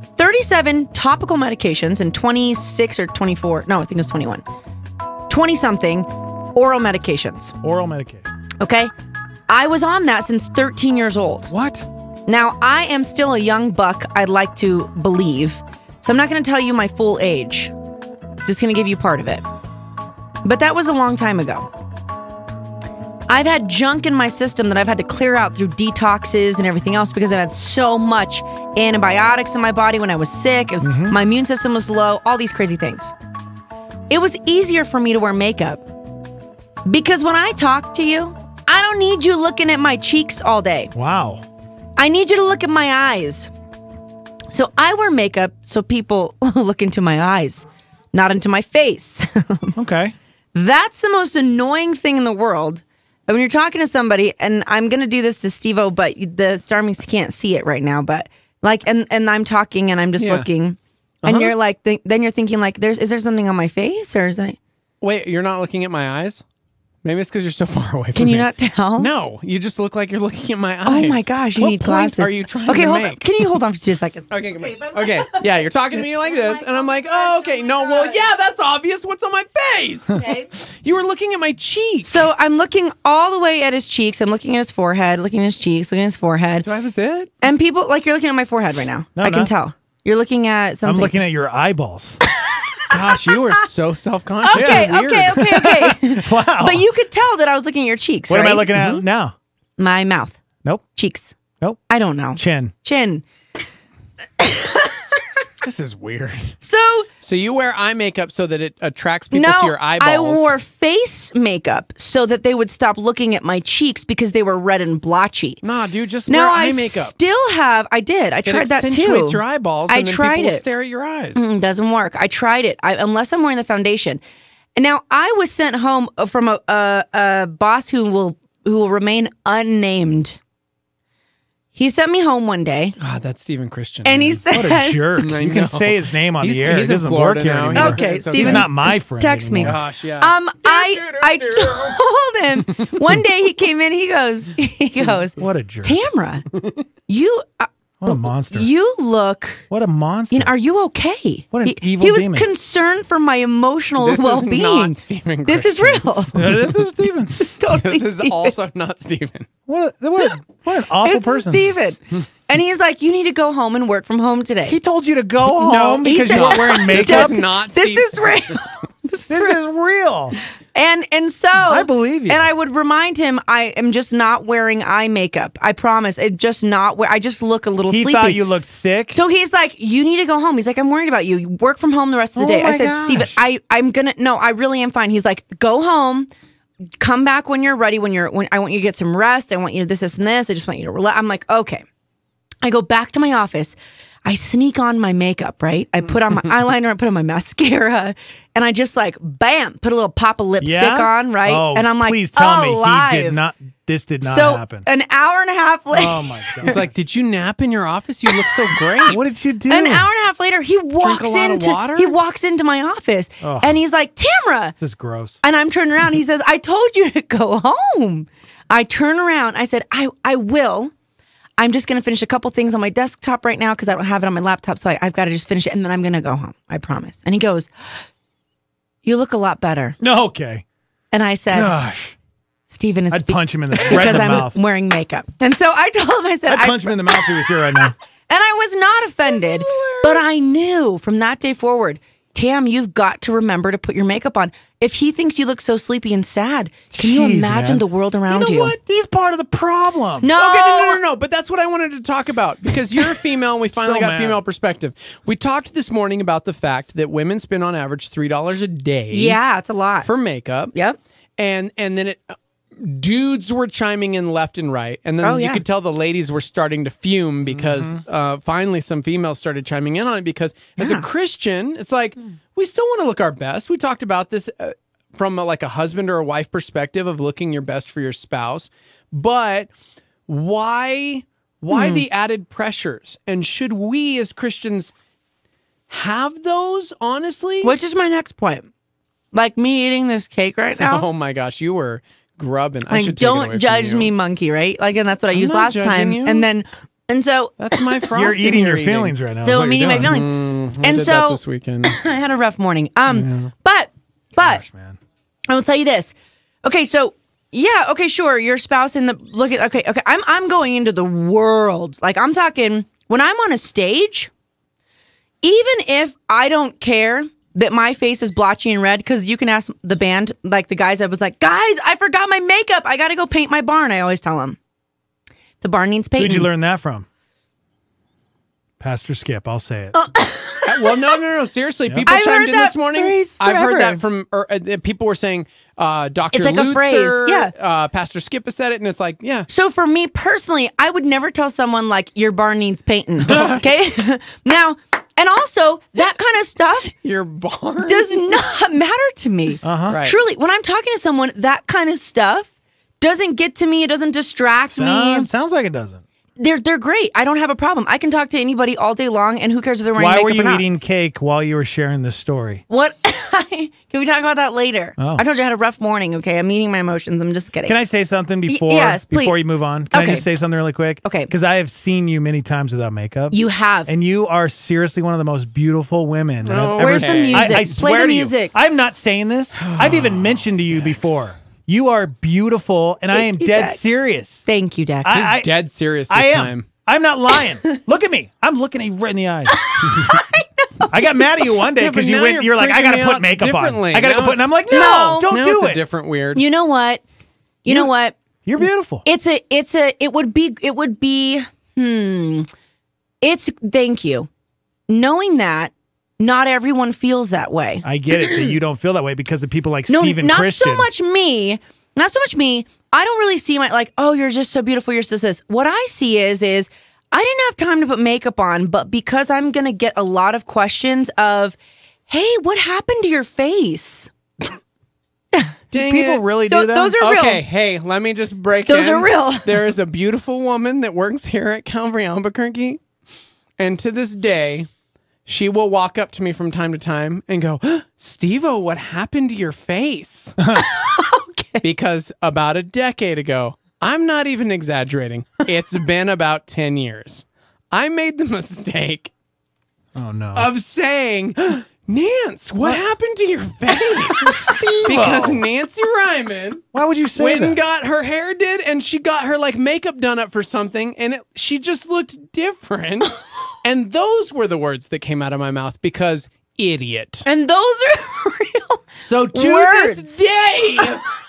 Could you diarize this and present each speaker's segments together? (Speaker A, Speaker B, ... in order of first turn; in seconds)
Speaker A: 0.2-4.4, 5.3-7.5, 8.6-8.9, 9.5-11.5, 12.3-17.7, 18.4-19.4, 20.4-21.7, 23.3-33.1, 34.1-35.9, 36.9-40.9, 42.0-43.5, 44.5-49.8, 50.5-64.6, 68.2-69.1, 70.9-78.3, 80.1-80.5, 82.0-86.7, 87.4-91.2, 94.4-98.7, 99.8-100.4, 101.0-101.3, 101.9-103.2, 104.4-105.0, 106.6-107.1, 109.3-115.6, 116.3-120.6, 121.3-124.2, 124.8-130.4, 131.8-132.9, 134.1-135.1, 137.8-146.4, 147.1-149.7, 150.3-156.6, 157.4-158.6, 161.0-164.8, 166.0-169.6, 170.7-178.4, 179.1-186.3, 187.0-191.8, 192.6-203.4, 204.2-206.8, 208.4-209.2, 209.7-214.8, 215.4-220.9, 221.6-227.7, 229.0-230.0, 231.1-231.8, 232.7-237.7, 238.3-248.8, 250.2-251.0, 259.1-260.1, 260.7-261.0, 265.2-265.6, 270.8-271.1, 281.7-282.1, 287.6-288.7, 289.3-291.0, 292.9-298.0, 299.4-304.6, 305.5-314.3, 315.4-324.6, 325.6-326.5, 329.9-331.0, 332.1-334.0, 336.3-337.5, 339.5-346.9, 347.9-352.5, 353.0-355.3, 356.4-360.6, 362.7-367.8, 368.5-369.4, 369.9-370.3, 371.0-371.3, 373.3-373.9, 376.8-378.6, 383.1-383.8, 384.4-385.3, 389.5-391.2, 394.7-395.3, 396.4-397.0, 397.6-398.1, 399.0-402.5, 403.2-404.3, 404.9-408.6, 409.9-421.6, 422.1-424.1, 426.5-427.4, 428.7-429.6, 440.6-441.6, 467.3-470.1
Speaker B: 7.6-8.3, 11.5-11.9, 30.8-31.2, 41.0-41.4, 49.8-50.1, 89.2-89.5, 90.8-92.2, 92.9-93.3, 94.5-96.9, 98.3-99.3, 102.4-102.7, 134.5-139.8, 145.4-146.0, 148.0-148.7, 149.7-150.5, 151.5-152.5, 156.3-157.4, 159.7-161.7, 164.7-167.4, 169.3-170.4, 171.7-172.5, 177.9-179.2, 182.4-183.4, 200.6-204.9, 205.9-206.9, 209.1-210.1, 213.4-213.8, 214.8-215.4, 230.0-230.6, 231.5-232.2, 233.1-234.6, 236.5-237.9, 246.9-250.3, 253.7-254.4, 267.5-268.0, 298.1-300.2, 304.4-305.0, 326.2-327.1, 328.8-330.0, 349.6-350.0, 354.7-356.0, 360.0-362.6, 365.0-365.2, 367.7-384.4, 385.0-385.6, 386.1-389.8, 390.9-395.9, 398.4-399.0, 407.8-410.9, 425.7-427.0, 440.4-440.7, 449.9-450.5, 454.2-455.4, 456.7-457.6
Speaker C: 60.2-60.5, 61.2-61.5, 65.0-66.4, 67.0-73.2, 74.3-82.3, 86.6-87.3, 92.9-95.5, 98.8-99.0, 105.6-106.5, 107.2-110.5, 115.6-117.2, 118.5-121.5, 133.0-134.4, 135.2-138.7, 139.6-142.0, 154.0-156.4, 157.7-159.5, 165.6-168.6, 206.6-209.2, 211.0-212.2, 250.3-259.4, 260.0-260.7, 261.4-279.7, 280.3-284.9, 285.9-287.7, 290.8-294.1, 295.3-296.5, 297.6-299.1, 300.1-302.0, 303.1-303.5, 330.6-339.5, 343.3-343.6, 346.9-348.2, 349.9-350.2, 376.4-377.7, 379.6-381.1, 385.2-386.7, 391.8-396.4, 425.7-426.2, 427.0-432.8, 433.6-434.7, 435.3-440.4, 441.6-449.1, 450.4-456.6, 457.2-467.3, 469.0-471.1